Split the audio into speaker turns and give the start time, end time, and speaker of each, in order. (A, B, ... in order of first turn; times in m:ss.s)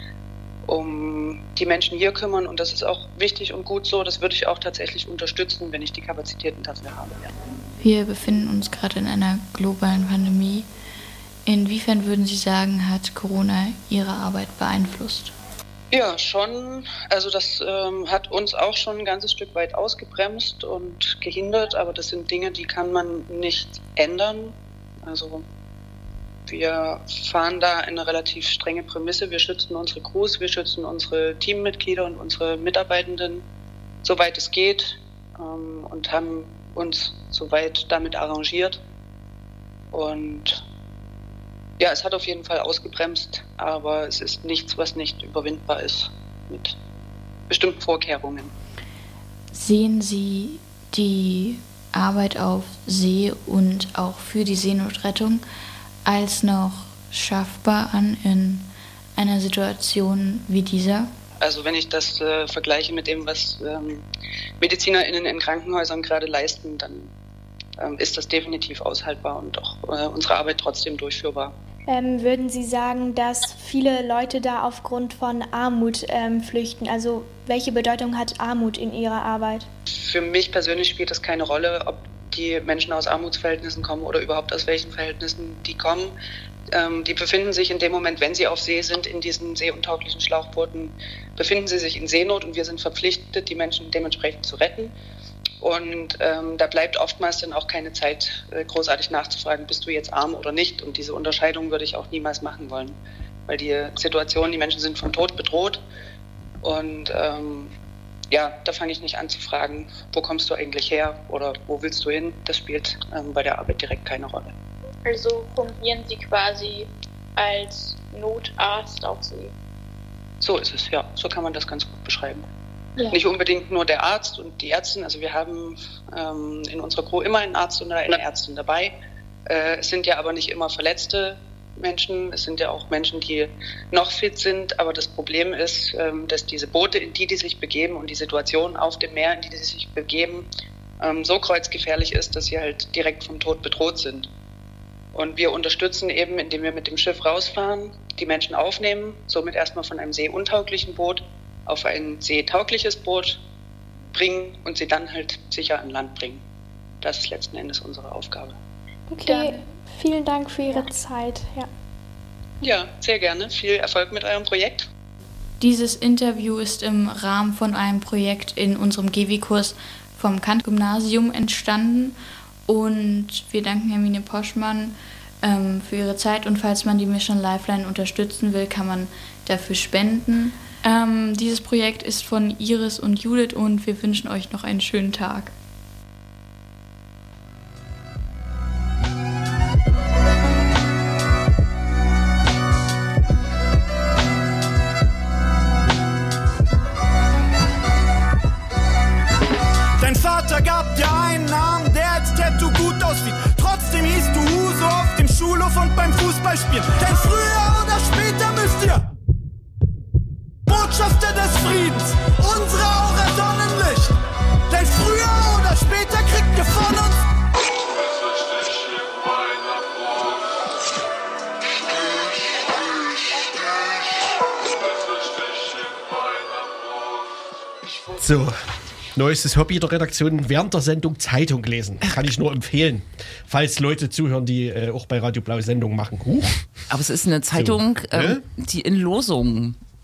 0:00.7-0:07.3 A
0:07.8-0:10.7 B
0:11.5-0:15.3 B
0:15.9-0:25.4 A
0:26.5-0:33.4 A
0:34.0-0:38.8 A
0:39.9-0:40.6 A
0:41.8-0:46.8 A
0:47.5-0:48.5 A
0:49.5-0:55.4 B
0:56.0-1:01.1 B
1:01.4-1:04.0 A
1:04.6-1:07.1 A
1:07.8-1:11.6 A
1:11.9-1:19.7 C
1:20.0-1:26.1 A
1:26.7-1:34.9 A
1:35.6-1:45.8 A
1:46.6-1:47.7 A
1:48.3-1:54.5 A
1:55.0-1:59.5 D
2:00.4-2:02.4 A
2:03.0-2:09.0 A
2:09.5-2:20.5 A
2:21.0-2:24.3 A
2:25.1-2:33.4 A
2:34.1-2:36.4 A
2:37.0-2:38.6 A
2:39.1-2:41.7 C
2:42.6-2:44.9 A
2:45.6-3:05.5 B
3:20.0-3:29.1 E
3:30.7-3:34.2 E
3:34.7-3:37.3 E
3:39.0-3:39.7 E
3:48.2-3:48.6 F
3:49.1-3:56.6 F
3:56.9-3:59.8 G
3:57.6-3:58.4 F